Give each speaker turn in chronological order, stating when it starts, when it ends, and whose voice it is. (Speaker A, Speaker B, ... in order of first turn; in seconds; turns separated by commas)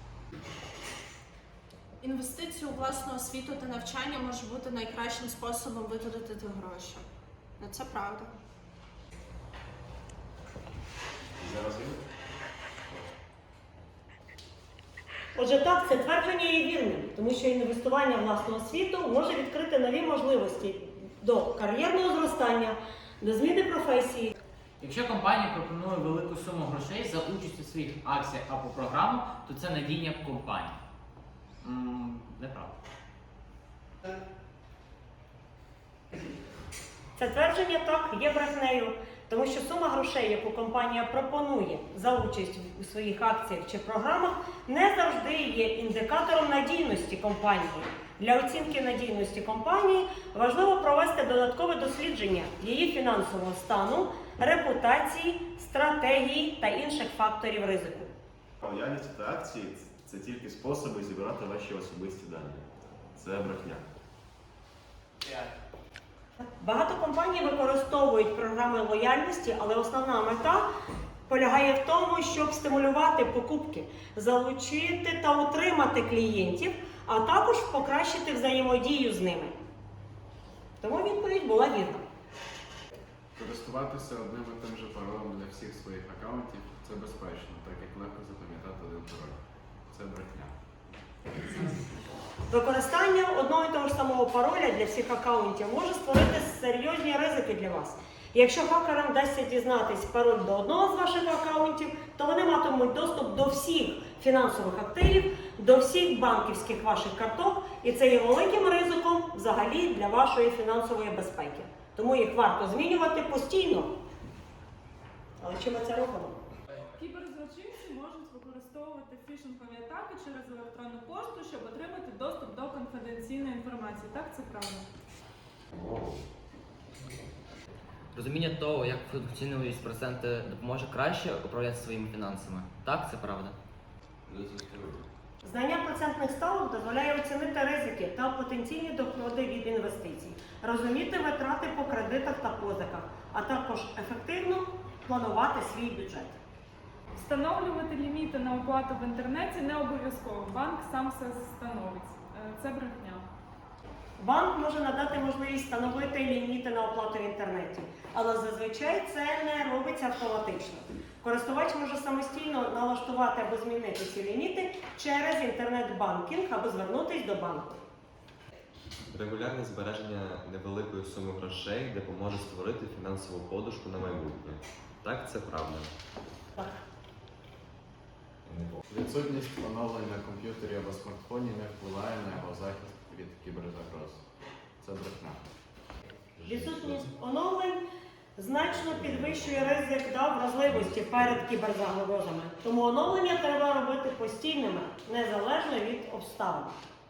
Speaker A: 2.0-7.0, Speaker A: 7.6-8.3, Speaker B: 11.4-12.0, Speaker C: 15.3-24.3, Speaker D: 24.8-30.8, Speaker D: 31.6-32.7, Speaker C: 37.2-58.1, Speaker B: 58.6-62.6, Speaker B: 63.1-63.8, Speaker C: 66.4-70.7, Speaker C: 71.3-79.5, Speaker C: 80.8-82.0, Speaker E: 83.3-89.4, Speaker E: 89.9-90.5, Speaker C: 92.5-113.9, Speaker C: 115.4-116.4, Speaker F: 117.0-124.8, Speaker G: 125.8-126.1, Speaker H: 128.1-133.6, Speaker G: 134.3-135.0, Speaker C: 135.4-146.4, Speaker F: 147.2-153.2, Speaker C: 154.2-167.8, Speaker G: 169.1-175.9, Speaker G: 178.4-178.8, Speaker E: 178.9-184.2, Speaker E: 184.8-185.4, Speaker C: 186.4-187.8, Speaker C: 188.3-196.7